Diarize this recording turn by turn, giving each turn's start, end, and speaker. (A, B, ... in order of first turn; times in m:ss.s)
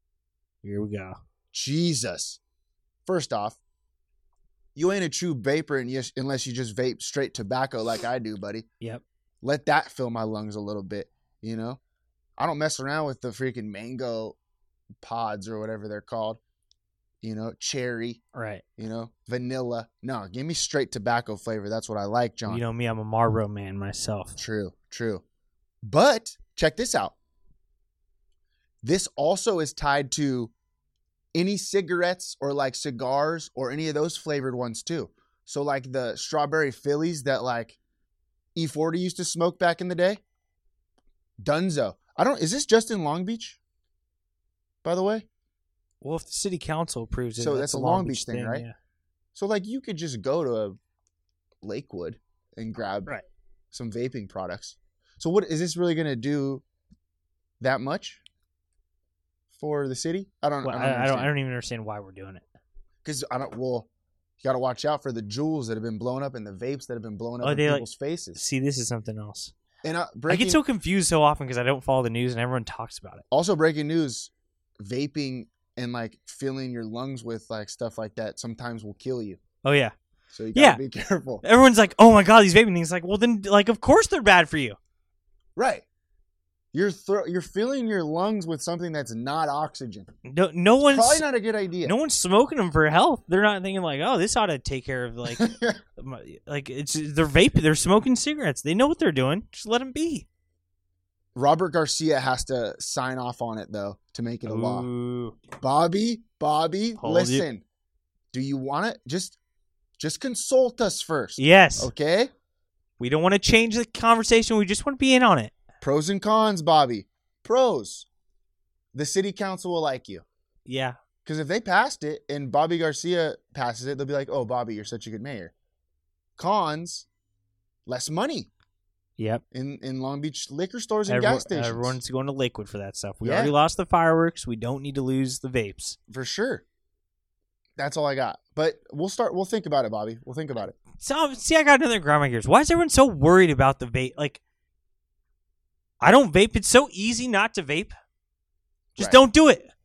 0:00.6-0:01.2 A
0:01.5-0:02.4 B
0:03.1-0:03.6 B
0:04.8-0:08.7 B
0:09.4-0:11.8 B
0:12.4-0:14.4 B
0:15.0-0:16.4 B
0:17.2-0:18.2 B
0:18.4-0:18.6 A
0:18.8-0:22.6 B
0:22.5-0:24.4 A
0:24.4-0:25.2 B
0:25.8-0:27.1 B
0:28.8-0:30.5 B
0:31.3-0:37.8 B
0:38.6-0:40.2 B
0:41.4-0:43.6 B
0:44.8-0:45.3 B
0:46.0-0:48.8 A
0:47.4-0:48.7 B
0:49.4-0:50.8 B
0:51.6-0:53.1 B
0:53.7-0:56.6 B
0:57.6-0:58.2 B
0:59.5-1:01.3 B
1:00.6-1:02.4 A
1:03.0-1:03.9 B
1:04.4-1:08.4 B
1:07.4-1:09.5 A
1:09.8-1:10.6 B
1:10.3-1:13.2 A
1:13.3-1:19.4 B
1:19.6-1:19.9 A
1:20.3-1:21.4 B
1:20.5-1:20.8 A
1:21.4-1:24.8 A
1:25.6-1:25.9 B
1:26.7-1:30.1 B
1:30.3-1:31.2 A
1:30.8-1:32.0 B
1:31.8-1:40.3 A
1:35.3-1:35.8 B
1:41.4-1:44.9 B
1:44.4-1:45.4 A
1:45.6-1:47.6 B
1:47.0-1:47.4 A
1:48.3-1:49.4 B
1:50.0-1:52.3 B
1:51.4-1:51.9 A
1:53.0-1:55.5 A
1:55.8-1:58.1 B
1:58.9-2:00.2 B
2:00.7-2:01.0 A
2:01.2-2:05.5 B
2:06.4-2:07.1 B
2:07.9-2:08.5 B
2:09.2-2:09.4 A
2:09.5-2:12.0 B
2:11.1-2:16.0 A
2:13.2-2:13.6 B
2:16.1-2:16.6 B
2:17.8-2:20.8 B
2:21.0-2:24.4 A
2:26.0-2:27.9 A
2:29.0-2:29.2 B
2:29.0-2:29.7 A